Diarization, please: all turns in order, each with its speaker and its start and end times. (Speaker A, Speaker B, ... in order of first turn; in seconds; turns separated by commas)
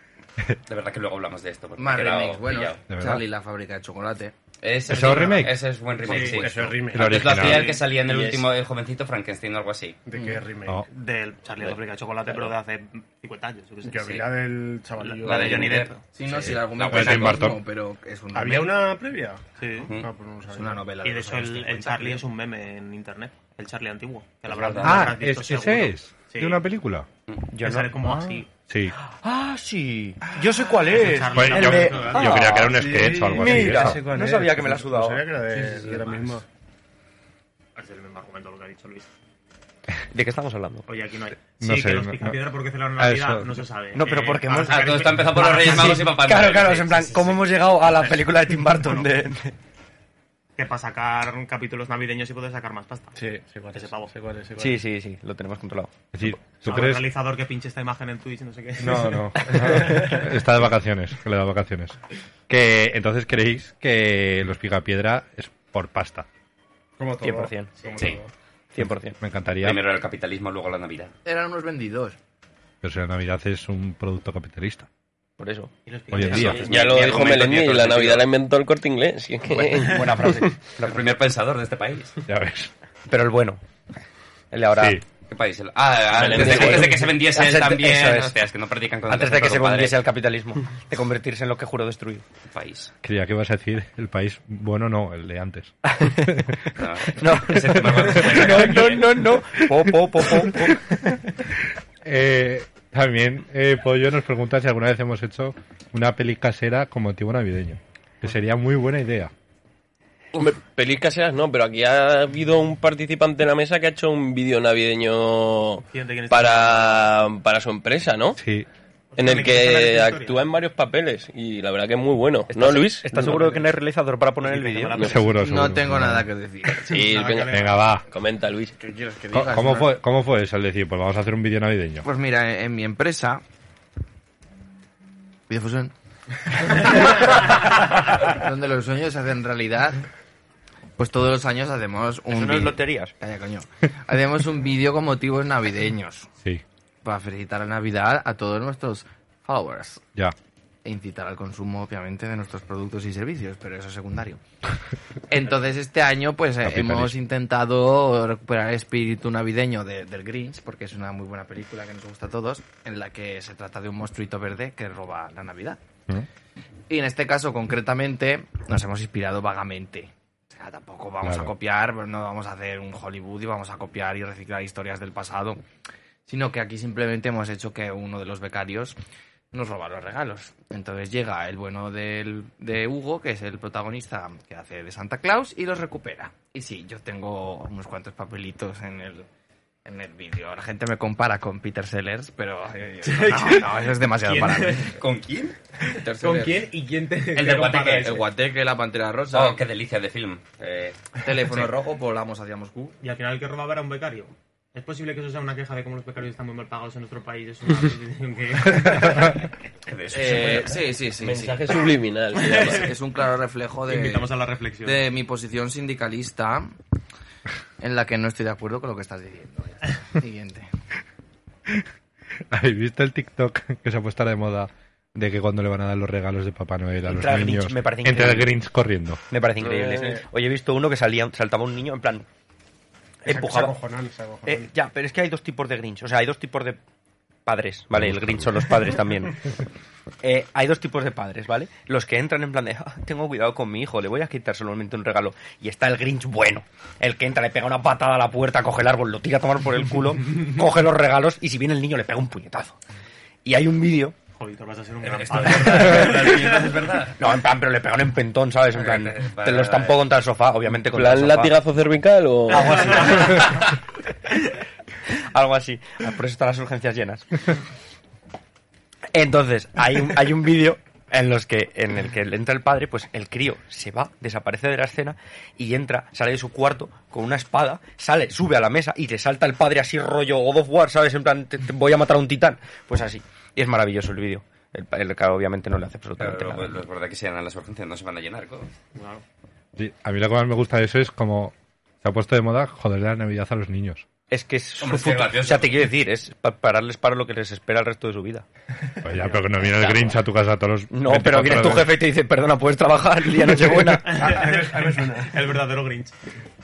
Speaker A: 0.7-2.8, Speaker B: 1.8-4.3, Speaker C: 2.9-3.2, Speaker A: 4.6-10.0, Speaker D: 4.9-5.5, Speaker C: 4.9-5.5, Speaker D: 6.0-6.6, Speaker E: 6.1-7.4, Speaker C: 6.9-7.8, Speaker D: 7.2-7.8, Speaker F: 8.0-8.5, Speaker E: 10.0-10.8, Speaker D: 10.9-14.3, Speaker E: 13.8-15.8, Speaker D: 14.9-16.0, Speaker A: 15.2-17.5, Speaker B: 16.1-18.9, Speaker C: 16.8-17.6, Speaker E: 18.3-20.9, Speaker D: 19.6-19.9, Speaker B: 20.5-22.2, Speaker D: 21.0-26.6, Speaker A: 24.4-25.2, Speaker C: 24.8-27.1, Speaker G: 27.5-28.4, Speaker D: 27.6-28.5, Speaker C: 28.7-28.9, Speaker G: 29.0-35.3, Speaker D: 30.8-32.6, Speaker C: 31.3-34.0, Speaker E: 32.6-36.4, Speaker D: 35.6-36.4, Speaker D: 37.8-39.1, Speaker G: 40.1-40.9, Speaker D: 40.9-46.1, Speaker C: 41.6-42.4, Speaker C: 43.0-43.6, Speaker G: 43.9-49.5, Speaker A: 44.6-47.4, Speaker D: 48.8-49.0, Speaker D: 50.5-53.1, Speaker E: 53.1-54.8, Speaker D: 53.7-54.1, Speaker G: 54.6-56.3, Speaker C: 56.1-57.0, Speaker D: 56.6-60.1, Speaker C: 58.8-62.0, Speaker C: 62.5-66.3, Speaker E: 67.0-68.3, Speaker G: 67.2-67.7, Speaker D: 67.8-68.1, Speaker G: 68.7-69.2, Speaker C: 69.2-69.8, Speaker A: 69.6-71.1, Speaker B: 71.2-72.2, Speaker C: 72.8-74.9, Speaker G: 75.4-75.7, Speaker D: 75.8-77.0, Speaker C: 76.1-76.6, Speaker A: 76.2-78.2, Speaker G: 76.4-77.5, Speaker F: 76.5-80.5, Speaker G: 79.5-81.2, Speaker A: 80.8-82.1, Speaker C: 82.3-82.7, Speaker G: 83.1-83.6, Speaker G: 84.5-85.0, Speaker C: 84.8-85.0, Speaker A: 85.3-90.0, Speaker G: 86.1-88.3, Speaker F: 86.2-87.1, Speaker G: 89.1-92.2, Speaker A: 92.5-92.9, Speaker C: 93.0-96.5, Speaker G: 95.8-101.3, Speaker A: 96.8-99.2, Speaker C: 97.9-99.9, Speaker C: 102.0-109.3, Speaker F: 110.3-118.4, Speaker D: 115.9-117.1, Speaker C: 118.4-118.7, Speaker D: 119.1-120.4, Speaker F: 119.2-123.1, Speaker G: 122.5-125.2, Speaker D: 123.2-123.5, Speaker D: 124.4-125.4, Speaker C: 125.0-126.3, Speaker B: 125.4-127.0, Speaker F: 126.9-128.7, Speaker D: 126.9-127.9, Speaker C: 127.5-128.0, Speaker B: 128.8-129.9, Speaker C: 129.3-132.1, Speaker B: 132.0-133.4, Speaker B: 135.5-135.9, Speaker B: 136.5-137.6, Speaker B: 138.1-140.1, Speaker B: 141.0-146.3, Speaker G: 142.3-143.1, Speaker B: 147.0-150.0, Speaker B: 150.8-154.4, Speaker B: 155.3-165.8, Speaker C: 156.6-157.2, Speaker B: 166.9-175.6, Speaker C: 171.2-171.5, Speaker B: 176.3-178.9, Speaker B: 179.5-189.3, Speaker B: 189.8-194.9, Speaker D: 193.0-194.9, Speaker A: 194.9-195.6, Speaker B: 195.9-196.6, Speaker D: 196.2-198.3, Speaker A: 197.3-198.2, Speaker B: 198.0-199.6, Speaker A: 199.3-201.0, Speaker B: 201.2-202.9, Speaker D: 203.0-209.5, Speaker A: 209.9-210.8, Speaker B: 210.1-211.6, Speaker F: 211.2-212.8, Speaker D: 212.3-212.9, Speaker B: 212.6-214.3, Speaker D: 213.9-215.1, Speaker B: 214.8-216.7, Speaker B: 217.8-220.7, Speaker C: 222.5-229.2, Speaker G: 227.1-228.6, Speaker G: 229.3-232.2, Speaker F: 229.6-230.2, Speaker G: 233.2-233.8, Speaker E: 233.2-234.7, Speaker G: 234.4-236.8, Speaker G: 237.4-239.5, Speaker C: 238.0-238.5, Speaker G: 240.2-252.8, Speaker G: 253.4-254.2, Speaker D: 254.4-256.9, Speaker A: 255.0-257.2, Speaker G: 255.7-256.4, Speaker G: 257.2-261.6, Speaker A: 258.7-260.1, Speaker F: 260.9-262.9, Speaker G: 262.5-263.7, Speaker D: 262.8-263.6, Speaker G: 265.1-267.4, Speaker G: 269.1-286.8, Speaker A: 286.2-288.7, Speaker D: 288.9-289.2, Speaker C: 289.8-294.1, Speaker G: 294.3-298.4, Speaker A: 294.8-295.7, Speaker C: 299.0-301.9, Speaker G: 299.6-300.1, Speaker G: 300.9-304.4, Speaker D: 304.0-306.1, Speaker E: 304.1-305.5